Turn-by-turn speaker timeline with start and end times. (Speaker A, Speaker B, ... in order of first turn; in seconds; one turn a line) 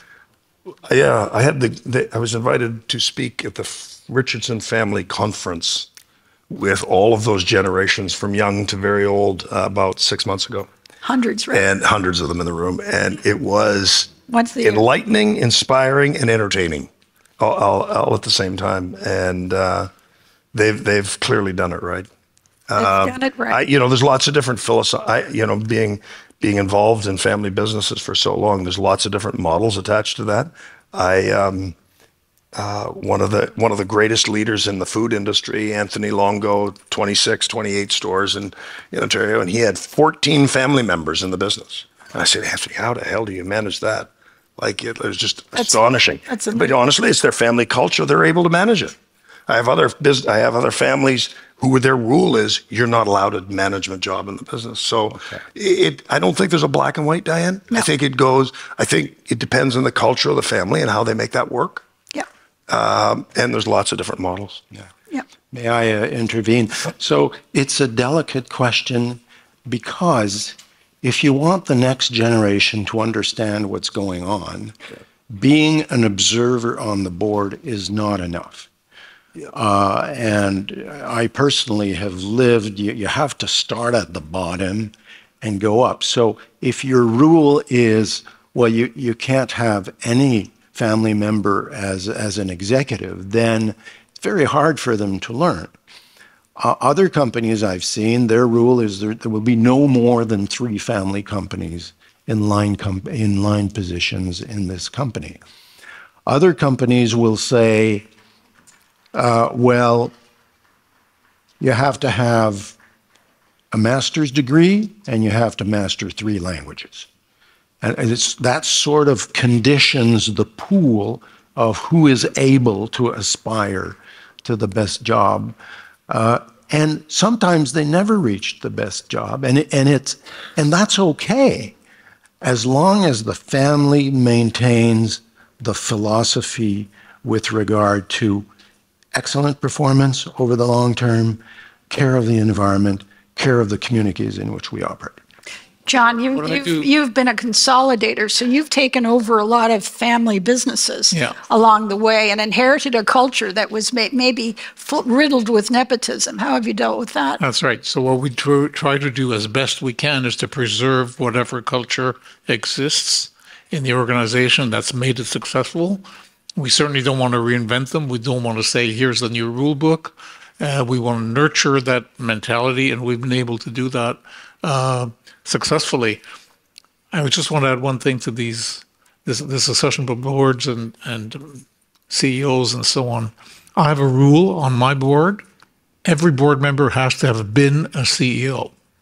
Speaker A: 0.8-5.9
Speaker A: 6.5-10.7
Speaker B: 11.0-11.7
Speaker A: 11.5-19.9
Speaker B: 14.3-14.8
Speaker A: 20.5-22.1
Speaker A: 22.7-31.7
Speaker B: 22.8-23.6
Speaker A: 32.5-48.9
Speaker B: 45.5-46.7
Speaker A: 49.5-61.8
Speaker A: 62.7-64.6
Speaker C: 65.5-74.7
Speaker C: 75.3-78.7
Speaker C: 79.5-95.7
Speaker C: 96.6-105.4
Speaker C: 106.2-108.1
Speaker C: 109.1-110.1
Speaker C: 111.6-112.8
Speaker C: 113.7-117.1
Speaker C: 117.8-125.5
Speaker C: 126.1-131.7
Speaker C: 132.4-138.5
Speaker C: 139.1-145.2
Speaker B: 145.8-157.4
Speaker D: 146.3-146.9
Speaker D: 151.1-151.4
Speaker D: 157.4-166.0
Speaker D: 166.6-176.2
Speaker D: 177.1-185.4
Speaker D: 186.0-188.7